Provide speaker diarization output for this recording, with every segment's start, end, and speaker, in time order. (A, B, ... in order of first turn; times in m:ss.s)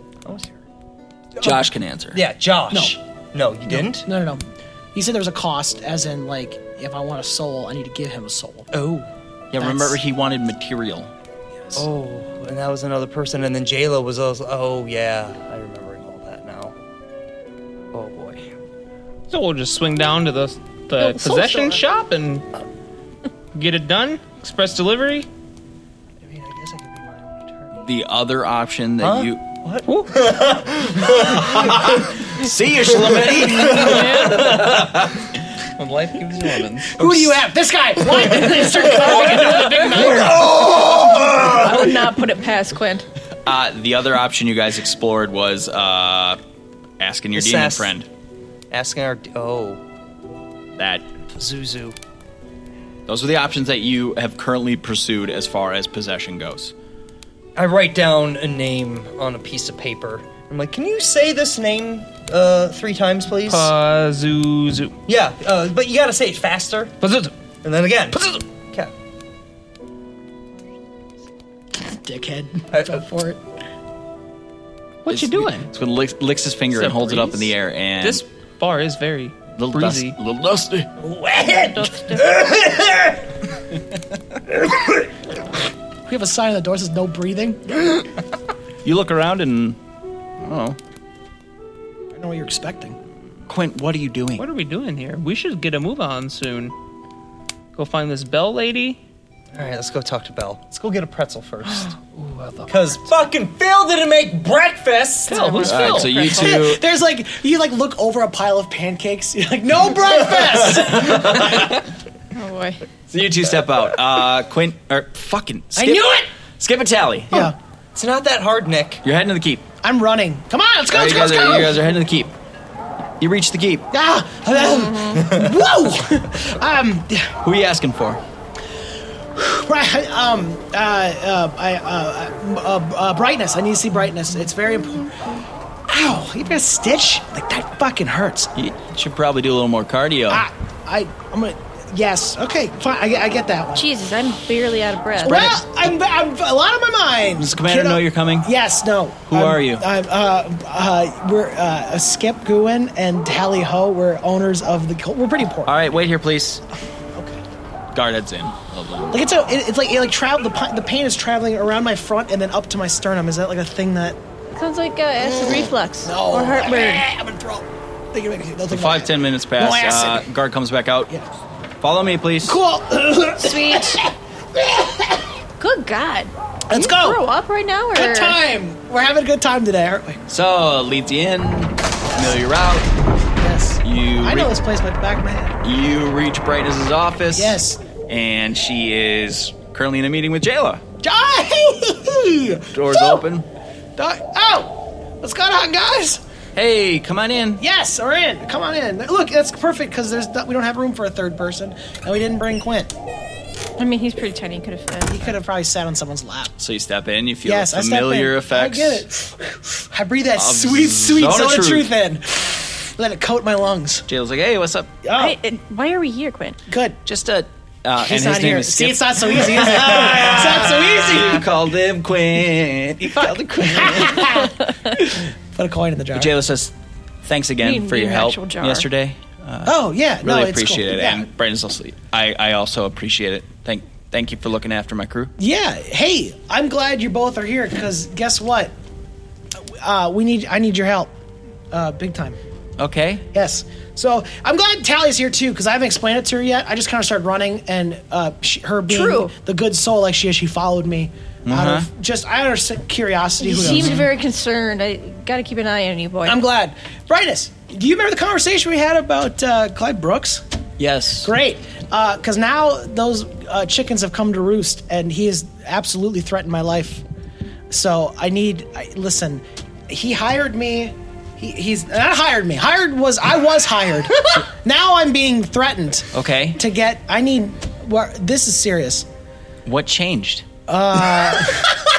0:00.2-0:00.6 A
0:01.4-0:02.2 B
0:02.1-0:04.1 A
0:02.7-0:03.0 C
0:03.7-0:08.7 C
0:08.7-0:09.1 A
0:09.5-0:11.1 B
0:09.6-0:10.0 A
0:11.8-0:16.8 A
0:17.9-0:18.5 A
0:19.3-0:22.5 D
0:21.0-0:21.8 E
0:23.5-0:25.3 D
0:26.2-0:27.9 A
0:27.8-0:29.4 B
0:29.0-0:32.1 A
0:29.9-0:30.1 D
0:31.2-0:35.3 B
0:33.0-0:34.9 A
0:33.7-0:34.5 E
0:35.8-0:37.1 D
0:36.9-0:41.6 C
0:38.5-0:41.9 A
0:38.9-0:40.4 D
0:41.4-0:43.1 E
0:43.5-0:46.4 B
0:47.0-0:48.1 B
0:47.4-0:47.9 A
0:48.7-0:49.8 A
0:50.8-0:51.0 B
0:51.3-0:52.0 A
0:53.1-0:56.7 B
0:57.6-1:03.7 A
1:03.5-1:05.0 D
1:05.1-1:07.0 A
1:07.0-1:07.3 D
1:07.6-1:08.9 A
1:08.1-1:08.4 D
1:11.7-1:13.4 C
1:15.0-1:15.7 D
1:15.1-1:18.2 B
1:16.7-1:20.2 D
1:19.6-1:20.9 B
1:21.0-1:23.3 A
1:21.8-1:22.2 E
1:24.5-1:25.0 A
1:26.1-1:28.0 C
1:28.8-1:29.8 B
1:30.4-1:30.8 B
1:32.1-1:33.0 C
1:33.5-1:34.4 B
1:34.4-1:36.7 D
1:37.7-1:39.0 D
1:39.5-1:42.0 A
1:41.6-1:43.0 D
1:42.7-1:45.7 A
1:45.3-1:46.6 D
1:45.6-1:46.8 B
1:46.3-1:51.5 C
1:50.6-1:51.8 B
1:52.3-1:52.8 E
1:53.1-1:57.5 B
1:55.8-1:56.3 C
1:57.3-1:57.6 C
1:58.0-1:59.0 A
1:59.0-1:59.6 B
1:59.8-2:01.9 C
2:00.9-2:02.3 B
2:03.2-2:03.9 B
2:03.9-2:07.4 C
2:05.2-2:05.5 A
2:07.4-2:08.2 B
2:09.3-2:15.2 C
2:15.9-2:18.5 C
2:18.6-2:20.5 B
2:20.3-2:23.9 C
2:23.8-2:25.5 E
2:25.2-2:35.7 C
2:25.3-2:25.6 B
2:27.4-2:28.5 B
2:29.3-2:29.8 B
2:35.7-2:36.6 B
2:37.2-2:37.4 C
2:37.9-2:39.3 B
2:39.1-2:44.2 C
2:44.6-2:47.0 E
2:45.2-2:50.3 C
2:48.7-2:51.2 B
2:51.8-2:52.6 B
2:52.4-2:55.2 C
2:53.4-2:54.0 E
2:55.6-2:58.4 E
2:56.7-2:57.2 C
2:58.0-3:00.2 C
3:00.3-3:02.9 B
3:03.4-3:05.6 C
3:03.8-3:04.5 B
3:05.6-3:10.8 B
3:07.3-3:07.8 C
3:11.0-3:13.2 C
3:12.7-3:13.5 B
3:14.0-3:16.2 C
3:16.6-3:17.6 B
3:17.6-3:22.9 C
3:23.8-3:25.3 E
3:25.1-3:26.5 C
3:26.6-3:29.0 B
3:27.4-3:34.1 C
3:30.4-3:31.9 B
3:34.1-3:35.0 B
3:35.0-3:35.4 C
3:35.2-3:36.6 E
3:36.7-3:37.0 C
3:37.1-3:44.5 B
3:38.0-3:41.5 C
3:43.6-3:46.3 C
3:46.1-3:46.7 B
3:47.2-3:55.3 B
3:47.6-3:48.9 E
3:49.6-3:51.3 C
3:55.4-3:58.7 C
3:59.6-4:01.1 C
4:01.7-4:02.4 C
4:02.8-4:03.2 B
4:03.3-4:14.1 C
4:08.9-4:09.3 E
4:11.5-4:11.9 B
4:13.4-4:16.4 E
4:16.2-4:20.4 C
4:20.8-4:21.3 B
4:21.2-4:27.0 C
4:27.7-4:39.1 C
4:36.1-4:36.6 B
4:39.7-4:40.5 B
4:40.7-4:41.9 C